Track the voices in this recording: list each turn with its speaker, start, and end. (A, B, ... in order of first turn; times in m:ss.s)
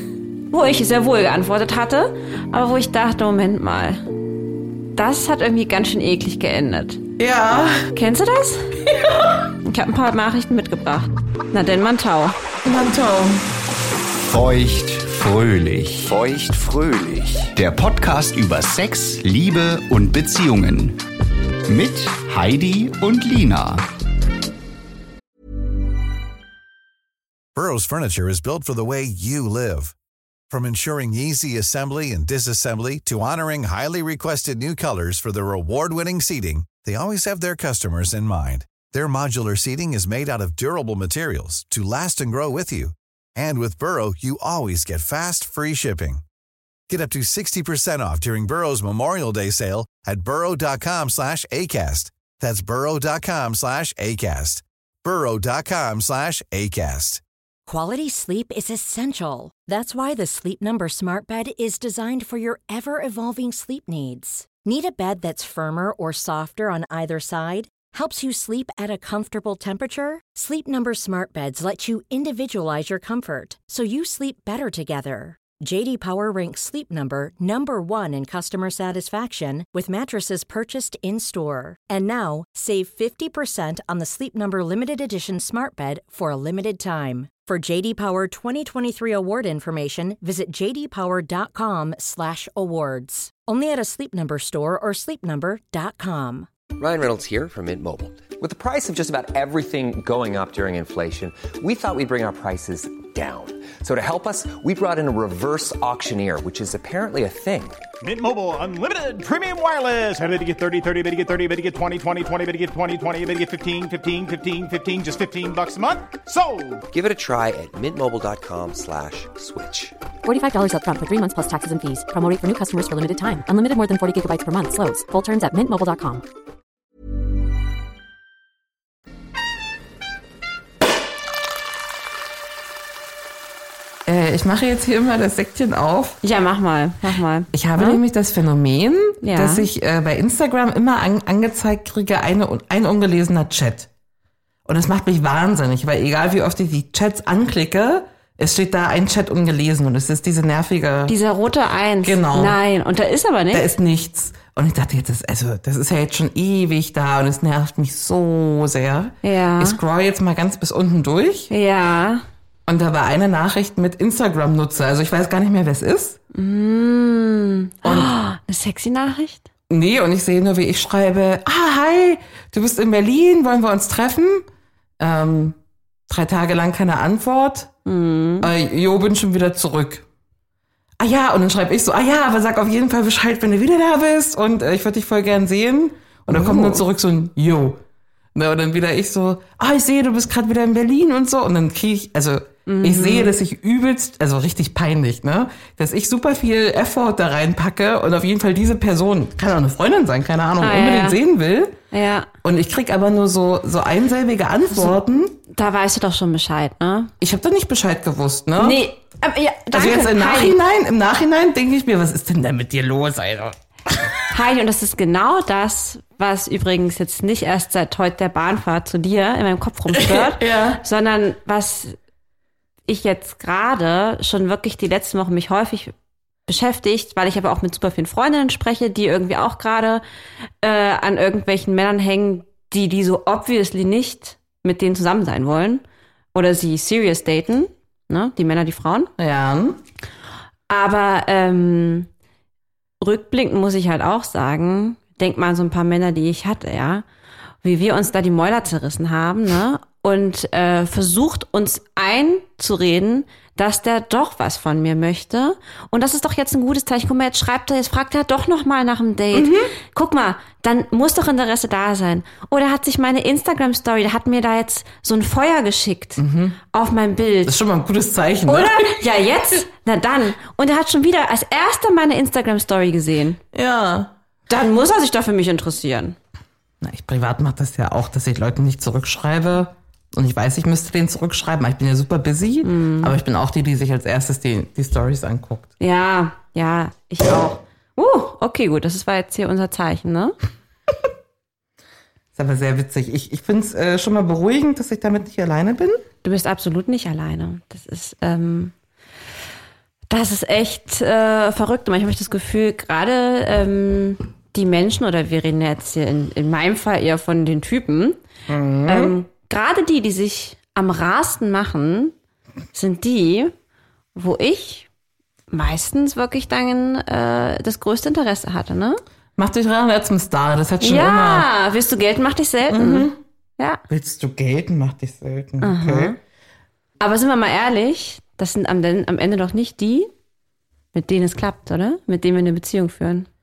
0:00.5-0:04.0 A
0:04.9-0:07.0 A
0:07.2-0:07.9 B
0:07.9-0:08.8 A
0:08.9-0:09.3 B
0:09.6-0:12.3 A
0:12.6-0:13.4 B
0:14.2-0:21.0 C
0:21.7-0:23.8 C
0:27.5-0:29.9 D
0:30.5-0:46.2 D
0:46.9-0:57.2 D
0:57.7-1:36.5 E
1:36.8-1:47.8 F
1:48.0-1:56.8 G
1:56.9-1:59.9 F
2:00.2-2:06.2 H
2:14.0-2:16.2 B
2:16.2-2:18.0 A
2:17.5-2:23.9 B
2:19.2-2:19.7 A
2:24.6-2:31.1 B
2:31.1-2:33.7 A
2:32.0-2:32.6 B
2:33.5-2:41.5 B
2:39.2-2:39.8 A
2:41.5-2:42.2 A
2:42.7-2:46.2 B
2:46.3-2:49.4 A
2:47.8-2:48.1 B
2:49.7-2:54.5 B
2:55.0-2:55.6 B
2:56.1-2:57.7 B
2:57.8-2:58.5 A
2:58.4-3:00.0 B
3:01.0-3:07.8 B
3:06.3-3:06.8 A
3:08.3-3:21.8 B
3:12.6-3:13.3 A
3:20.6-3:21.2 A
3:21.9-3:22.3 A
3:22.4-3:25.4 B
3:25.5-3:27.1 A
3:27.2-3:28.8 B
3:28.6-3:30.6 A
3:29.7-3:34.0 B
3:34.3-3:42.0 A
3:39.9-3:40.8 B
3:42.9-3:45.9 A
3:46.5-3:50.0 A
3:50.6-3:55.8 A
3:56.3-3:59.1 A
3:59.2-3:59.8 B
4:00.7-4:02.1 A
4:03.0-4:07.0 A
4:07.6-4:27.6 A
4:19.3-4:19.7 B
4:26.2-4:26.6 B
4:27.4-4:29.0 B
4:28.5-4:33.4 A
4:33.5-4:34.1 B
4:34.5-4:36.2 A
4:36.8-4:45.7 B
4:42.6-4:43.1 A
4:45.8-4:50.3 A
4:52.3-4:56.0 B
4:56.2-4:58.7 A
5:00.1-5:08.2 A
5:08.5-5:09.2 B
5:08.9-5:12.1 A
5:12.7-5:13.5 A
5:14.1-5:14.9 A
5:15.5-5:19.0 A
5:19.4-5:21.5 B
5:20.8-5:23.8 A
5:22.7-5:23.2 B
5:23.9-5:26.1 B
5:25.6-5:26.2 A
5:27.0-5:30.1 A
5:30.9-5:33.3 A